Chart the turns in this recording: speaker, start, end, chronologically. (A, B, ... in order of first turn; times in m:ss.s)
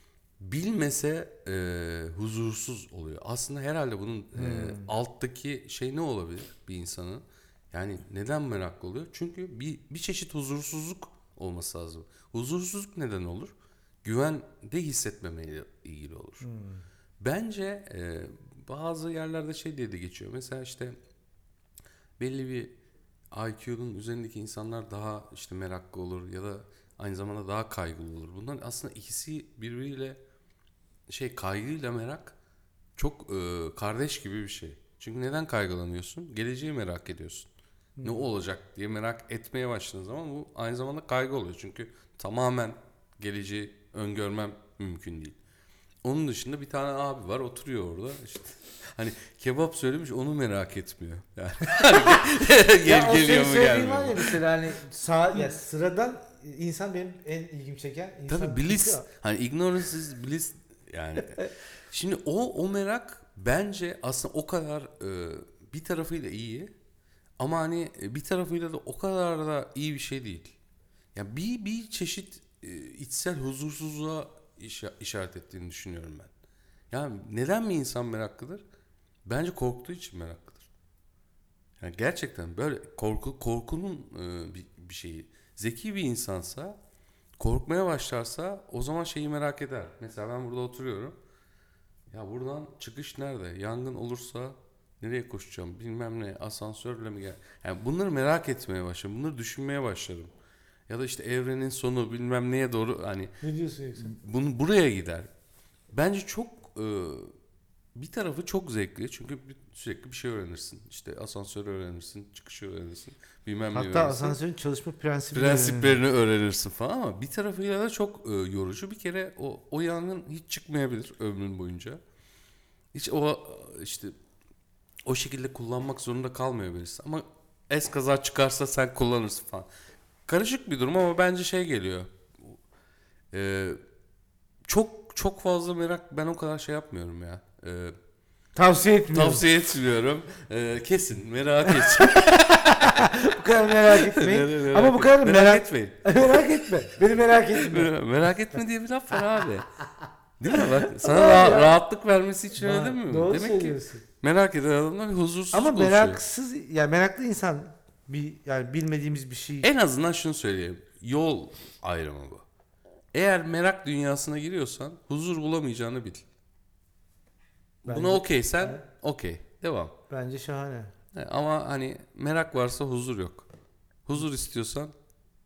0:00.4-0:13.5 A
0:04.3-0:04.9 B
0:14.0-0:16.4 A
0:16.4-0:16.8 B
0:17.2-0:21.0 A
0:22.2-0:22.8 A
0:23.3-0:30.2 A
0:31.1-0:32.4 A
0:33.0-0:37.5 A
0:38.0-0:38.3 B
0:38.0-0:45.4 A
0:46.0-0:54.4 A
0:52.8-0:59.0 B
0:58.3-1:06.7 A
1:07.4-1:10.5 A
1:11.1-1:16.3 A
1:16.9-1:18.6 A
1:19.2-1:20.7 A
1:21.8-1:26.8 A
1:27.4-1:31.2 A
1:32.1-1:40.3 A
1:40.9-1:43.4 A
1:43.4-1:44.1 B
1:44.0-1:45.3 A
1:45.9-1:47.3 A
1:48.0-1:54.4 A
1:53.7-1:56.0 B
1:55.3-2:02.0 A
2:02.9-2:04.1 A
2:05.0-2:09.7 A
2:10.2-2:12.6 A
2:13.3-2:13.8 A
2:14.7-2:17.9 A
2:18.5-2:19.4 B
2:19.1-2:23.0 A
2:21.7-2:27.9 B
2:23.8-2:26.4 A
2:27.5-2:29.7 A
2:30.4-2:36.2 A
2:30.9-2:31.8 B
2:32.6-2:34.0 B
2:35.5-2:39.7 B
2:39.6-2:42.4 A
2:43.1-2:46.2 A
2:47.8-2:49.9 A
2:47.9-2:48.8 B
2:50.1-2:50.9 B
2:51.1-2:53.5 A
2:54.0-2:54.9 A